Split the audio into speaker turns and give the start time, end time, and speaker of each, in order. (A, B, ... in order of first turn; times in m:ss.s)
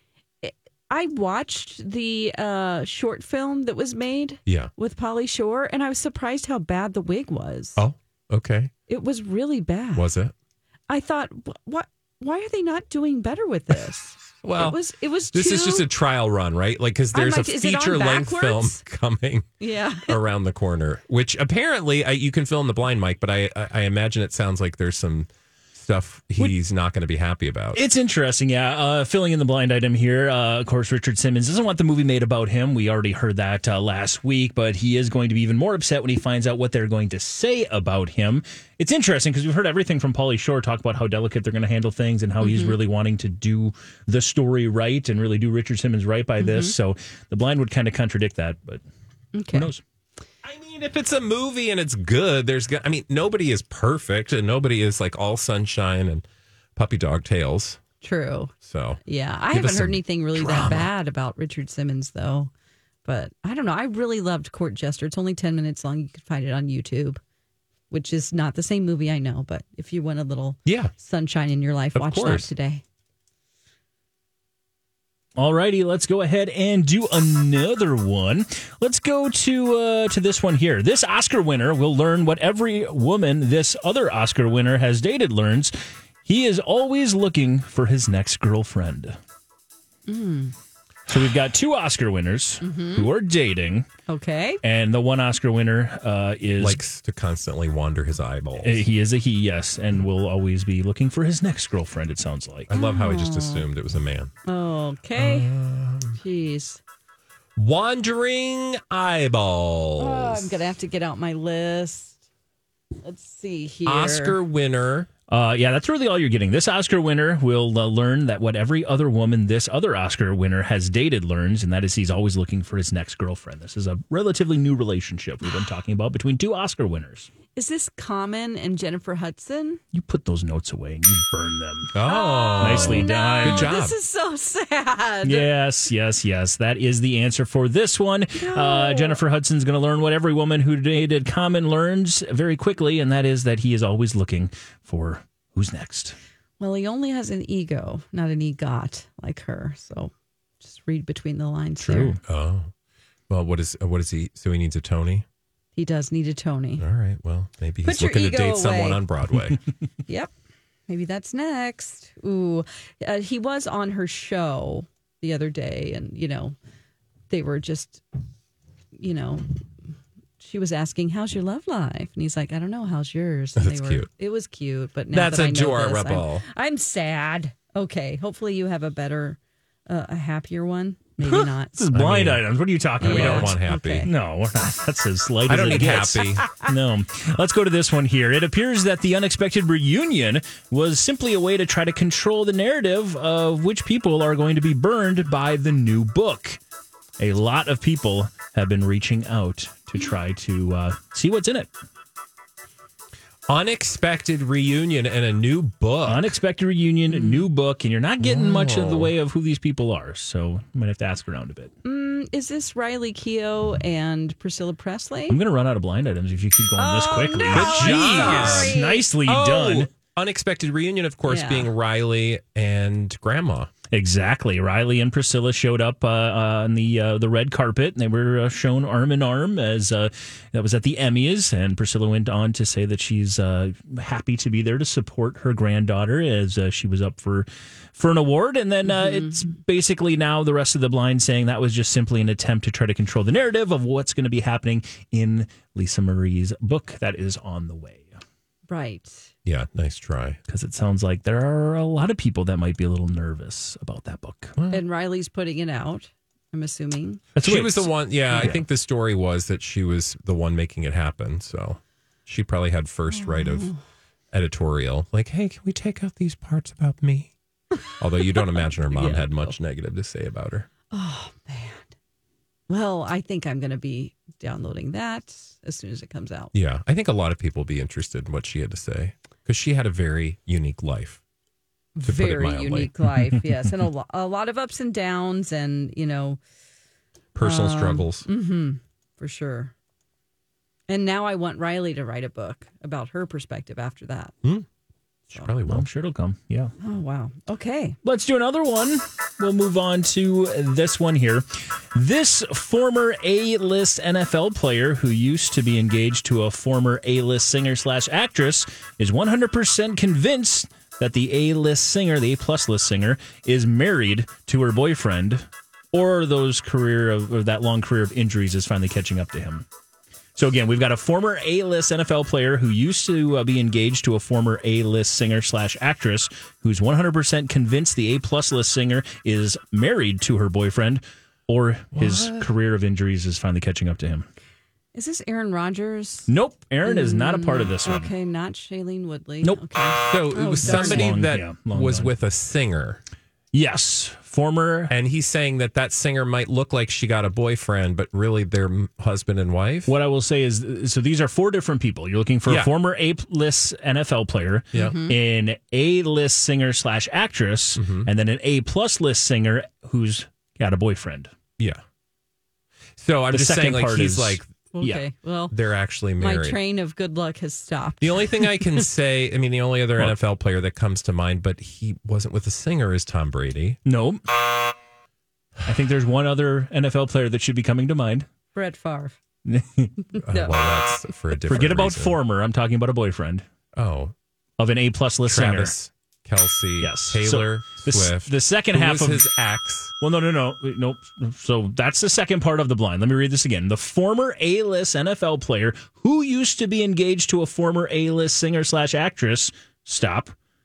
0:00.4-0:07.8 A
0:04.5-0:04.7 B
0:07.8-0:08.7 B
0:08.9-0:10.1 A
0:10.0-0:10.3 B
0:10.9-0:15.9 A
0:14.4-0:14.8 B
0:15.3-0:19.5 B
0:17.1-0:18.8 A
0:19.6-0:20.2 A
0:20.1-0:27.8 B
0:27.7-0:48.8 C
0:42.4-0:42.8 A
0:46.4-0:46.7 A
0:49.3-0:49.7 A
0:49.5-0:49.8 C
0:50.4-0:56.2 B
0:56.8-0:57.8 B
0:58.0-0:58.5 A
0:58.6-0:59.0 B
0:59.1-1:02.5 A
0:59.5-1:00.9 B
1:03.0-1:07.2 A
1:07.9-1:12.8 A
1:10.7-1:10.9 B
1:12.0-1:12.5 B
1:15.4-1:29.2 C
1:30.1-1:30.6 A
1:31.1-1:33.9 C
1:32.6-1:33.1 A
1:34.1-1:34.6 A
1:34.6-1:36.8 C
1:36.6-1:38.8 B
1:38.6-1:42.7 C
1:42.7-1:44.3 B
1:42.7-1:43.7 A
1:44.5-1:45.5 A
1:45.2-1:46.2 B
1:46.2-1:46.8 A
1:47.6-1:50.6 B
1:50.0-1:52.2 A
1:53.0-1:54.4 A
1:53.9-1:55.1 B
1:55.3-2:07.3 C
2:07.6-2:09.8 A
2:09.9-2:12.0 C
2:11.9-2:14.0 B
2:12.0-2:15.5 A
2:12.6-2:13.8 C
2:15.2-2:26.2 C
2:18.4-2:19.2 A
2:26.6-2:32.2 A
2:31.8-2:32.2 C
2:32.2-2:32.7 B
2:33.3-2:35.2 B
2:35.8-2:36.8 A
2:36.8-2:39.6 B
2:37.8-2:39.0 A
2:40.9-2:46.6 A
2:47.3-2:48.0 A
2:49.0-2:49.5 A
2:50.4-3:01.8 A
2:53.6-2:54.1 B
2:55.1-2:56.4 B
3:01.2-3:16.6 C
3:01.9-3:02.4 B
3:03.0-3:04.1 B
3:03.0-3:04.1 A
3:05.5-3:06.5 B
3:17.2-3:21.7 C
3:23.5-3:26.3 B
3:26.0-3:31.7 C
3:27.1-3:27.4 A
3:28.2-3:29.1 B
3:31.8-3:35.4 A
3:35.3-3:39.9 C
3:36.8-3:39.0 A
3:37.5-3:43.7 B
3:41.3-3:41.7 A
3:43.9-4:08.2 C
3:58.8-3:59.5 A
4:08.7-4:09.3 A
4:09.4-4:10.4 B
4:10.5-4:14.6 C
4:14.6-4:14.8 B
4:14.7-4:17.2 A
4:17.4-4:18.6 C
4:17.4-4:23.7 B
4:23.1-4:23.8 A
4:24.3-4:27.3 B
4:27.9-4:30.7 B
4:28.9-4:29.6 A
4:30.9-4:31.9 A
4:32.7-4:36.5 A
4:36.5-4:41.2 B
4:42.0-4:46.4 A
4:42.0-4:42.9 B
4:47.4-4:48.3 B
4:47.4-4:49.7 A
4:50.9-4:54.3 A
4:55.3-4:55.9 B
4:55.7-4:56.7 C
4:56.8-4:58.0 A
4:58.0-5:19.7 C
5:20.4-5:34.3 C
5:32.0-5:32.4 B
5:35.0-5:36.3 A
5:36.3-5:38.1 C
5:36.8-5:41.1 A
5:40.0-5:43.0 B
5:40.6-5:42.1 C
5:43.5-5:44.9 C
5:44.9-5:49.9 B
5:49.9-6:01.3 C
5:52.5-5:52.7 B
5:54.7-5:55.1 A
5:57.8-5:58.1 B
6:03.0-6:04.5 B
6:03.3-6:05.0 C
6:04.7-6:05.5 A
6:05.5-6:06.6 B
6:06.2-6:08.9 A
6:08.0-6:13.8 B
6:13.8-6:14.2 C
6:15.7-6:18.3 C
6:18.6-6:19.2 A
6:19.5-6:19.9 C
6:20.1-6:20.6 A
6:20.2-6:22.2 B
6:21.5-6:23.5 C
6:23.8-6:24.1 B
6:24.6-6:25.8 C
6:25.3-6:29.9 B
6:26.8-6:29.3 C
6:30.0-6:40.4 C